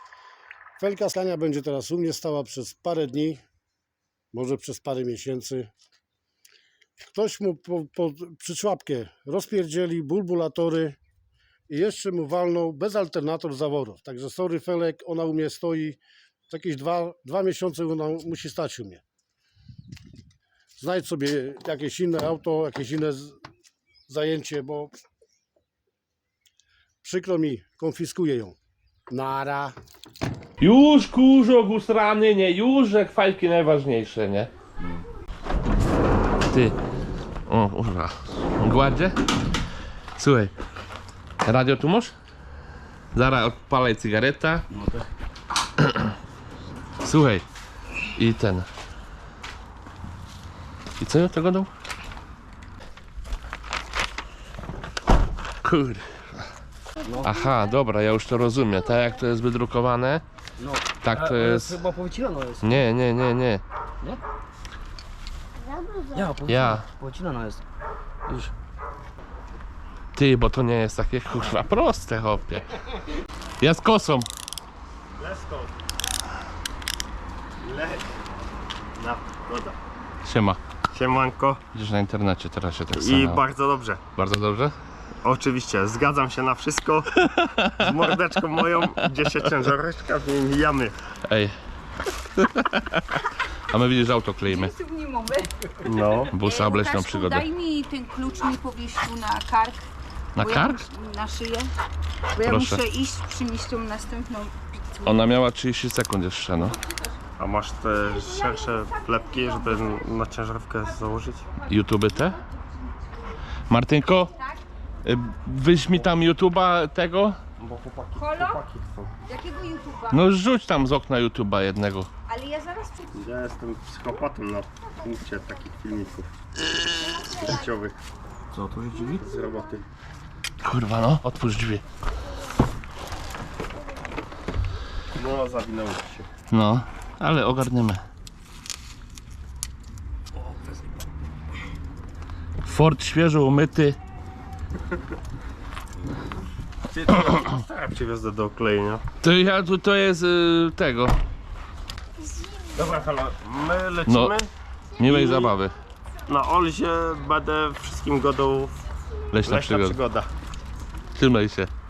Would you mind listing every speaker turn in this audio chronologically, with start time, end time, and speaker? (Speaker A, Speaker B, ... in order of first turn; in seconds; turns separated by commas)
Speaker A: 0.8-3.4, Speaker A: 4.3-5.7, Speaker A: 7.1-11.0, Speaker A: 11.7-19.0, Speaker A: 20.8-23.4, Speaker A: 24.1-24.9, Speaker A: 27.0-28.6, Speaker A: 29.1-29.7, Speaker B: 30.6-34.5, Speaker C: 34.8-35.0, Speaker B: 36.5-36.8, Speaker B: 37.5-39.1, Speaker B: 40.2-40.5, Speaker B: 41.4-42.1, Speaker B: 43.1-44.6, Speaker C: 44.7-45.0, Speaker B: 45.8-46.1, Speaker B: 47.0-47.5, Speaker B: 48.1-48.7, Speaker B: 51.0-51.7, Speaker B: 55.6-56.0, Speaker C: 57.0-57.5, Speaker B: 57.2-60.2, Speaker C: 60.6-62.8, Speaker B: 61.0-61.8, Speaker B: 62.6-63.6, Speaker C: 66.1-67.6, Speaker B: 66.5-66.8, Speaker B: 70.2-72.7, Speaker B: 73.6-74.3, Speaker D: 75.2-75.7, Speaker D: 77.6-78.0, Speaker D: 78.9-79.8, Speaker B: 80.2-80.6, Speaker D: 80.9-81.6, Speaker B: 81.7-83.4, Speaker D: 83.0-84.0, Speaker B: 84.2-84.7, Speaker D: 85.2-87.1, Speaker B: 87.4-88.0, Speaker D: 87.8-91.0, Speaker B: 91.3-91.5, Speaker B: 92.4-93.0, Speaker B: 93.7-94.7, Speaker E: 94.5-95.5, Speaker D: 95.8-96.3, Speaker B: 96.3-97.5, Speaker E: 96.4-99.8, Speaker B: 100.3-100.8, Speaker E: 100.4-101.7, Speaker E: 102.3-105.1, Speaker B: 102.4-102.8, Speaker B: 105.0-106.7, Speaker D: 107.4-111.5, Speaker B: 111.7-112.4, Speaker B: 113.7-114.3, Speaker B: 115.0-117.4, Speaker D: 117.6-119.1, Speaker E: 118.1-118.6, Speaker E: 119.2-120.2, Speaker B: 120.1-122.1, Speaker E: 122.3-123.1, Speaker D: 123.1-126.3, Speaker D: 127.0-128.0, Speaker D: 128.6-129.8, Speaker B: 130.6-131.8, Speaker D: 135.1-136.3, Speaker B: 136.5-138.0, Speaker B: 142.6-144.0, Speaker D: 146.9-149.0, Speaker B: 149.2-151.2, Speaker D: 152.7-155.5, Speaker B: 154.1-154.3, Speaker B: 155.0-155.7, Speaker D: 156.3-158.8, Speaker B: 159.3-160.0, Speaker D: 159.4-160.3, Speaker B: 161.2-161.7